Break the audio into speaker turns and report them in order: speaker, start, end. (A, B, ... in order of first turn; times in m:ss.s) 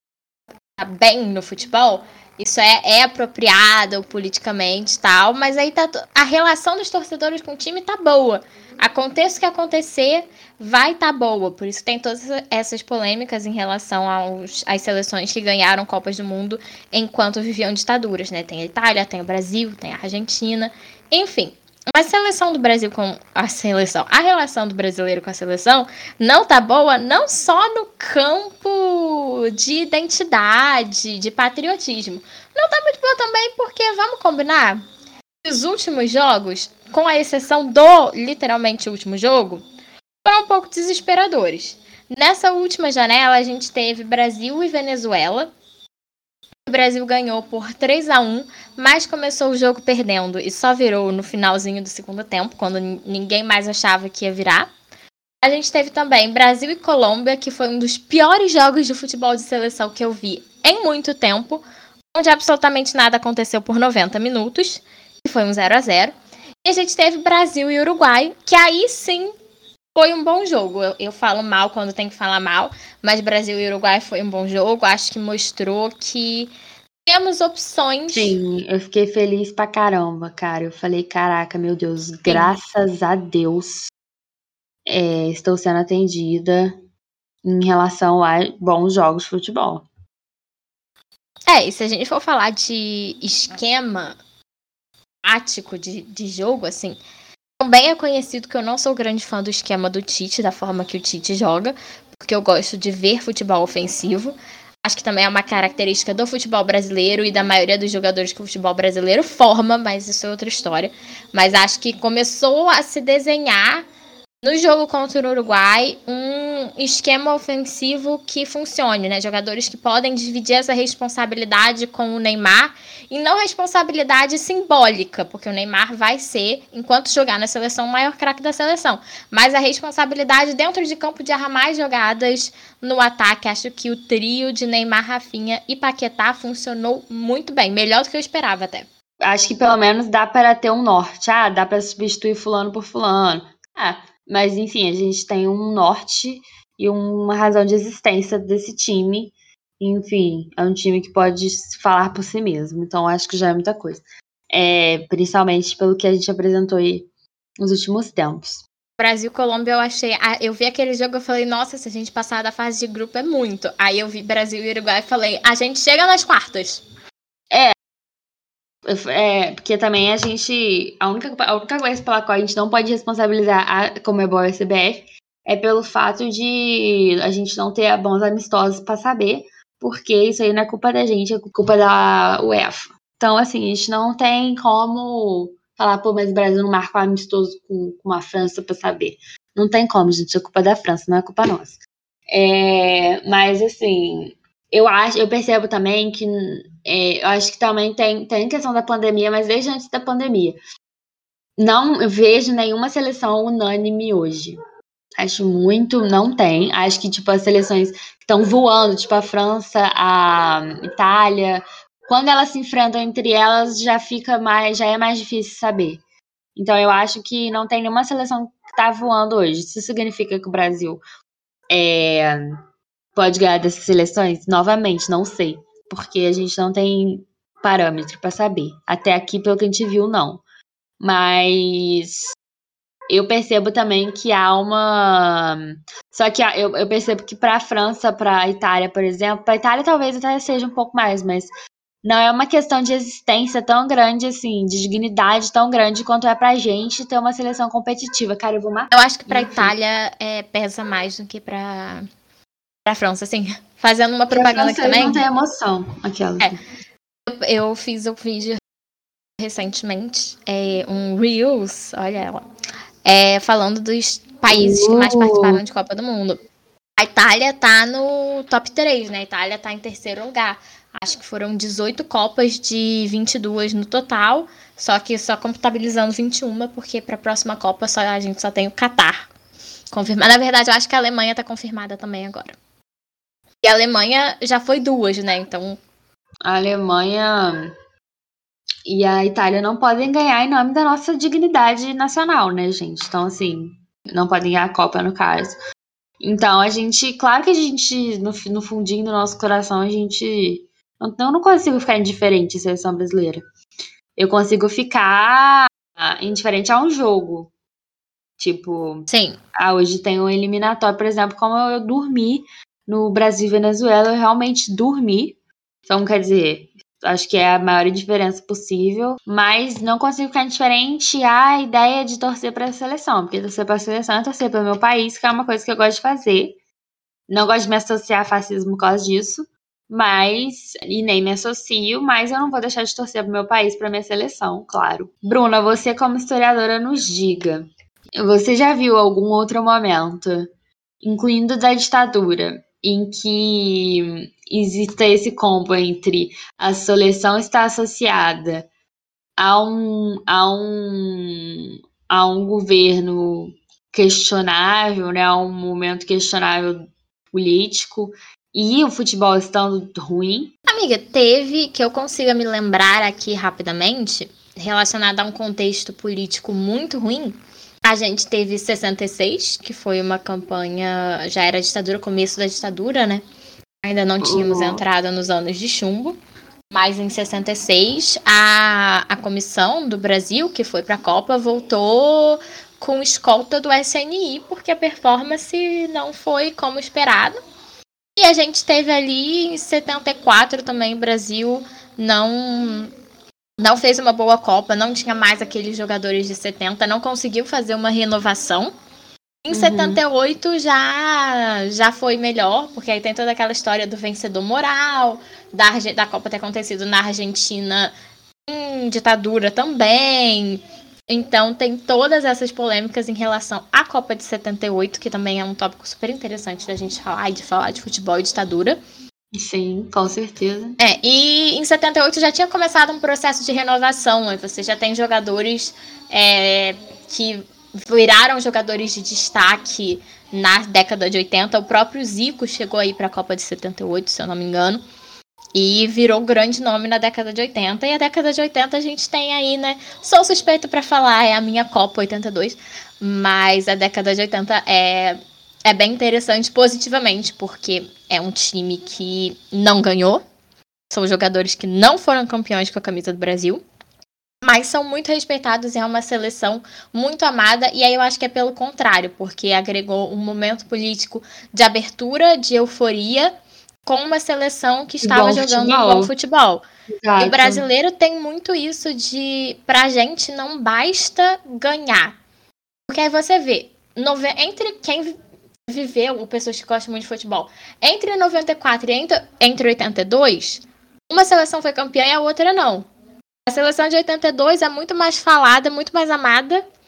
0:00.8-0:34.8 A
0:35.4-0:39.6 A
0:40.2-0:45.5 A
0:46.6-0:54.7 A
0:55.4-1:01.6 A
1:02.1-1:09.3 A
1:09.9-1:16.5 A
1:17.0-1:18.4 A
1:18.1-1:23.9 B
1:22.3-1:22.5 A
1:24.9-1:26.8 B
1:27.4-1:29.8 B
1:31.5-1:34.2 A
1:35.2-1:37.0 A
1:37.6-1:53.8 A
1:54.4-2:18.9 A
2:19.2-2:37.1 B
2:37.6-2:38.6 B
2:39.0-2:46.8 A
2:48.8-3:20.6 B
3:21.6-3:24.6 B
3:25.2-3:36.0 B
3:36.6-3:41.0 B
3:41.7-3:42.5 B
3:43.1-3:50.4 B
3:51.0-3:52.3 B
3:53.1-4:01.5 B
4:02.0-4:09.7 B
4:08.9-4:12.0 A
4:12.8-4:15.2 A
4:14.3-4:16.6 B
4:17.3-4:18.6 A
4:19.4-4:22.4 A
4:23.0-4:26.4 A
4:24.5-4:25.6 B
4:27.0-4:39.3 A
4:39.9-4:42.6 A
4:43.6-4:45.8 A
4:46.4-4:47.7 B
4:48.9-4:55.6 B
4:56.2-5:03.4 B
5:04.2-5:07.5 B
5:08.4-5:26.6 B
5:09.1-5:09.4 A
5:27.3-5:40.5 B
5:41.0-5:48.7 B
5:49.4-6:00.5 B
6:00.7-6:13.2 A
6:13.8-6:16.2 A
6:14.2-6:14.8 B
6:16.7-6:27.4 A
6:28.2-6:32.9 A
6:33.6-6:38.7 A
6:39.4-6:47.9 A
6:39.5-6:40.0 B
6:48.5-6:58.8 A
6:59.3-7:00.8 B
7:00.8-7:14.8 A
7:15.5-7:30.2 A
7:30.9-7:33.6 A
7:34.4-7:43.3 A
7:43.8-7:46.6 A
7:45.0-7:46.1 B
7:47.0-7:47.6 B
7:47.2-7:52.2 A
7:52.9-7:55.1 A
7:55.7-8:02.9 A
8:03.5-8:06.6 A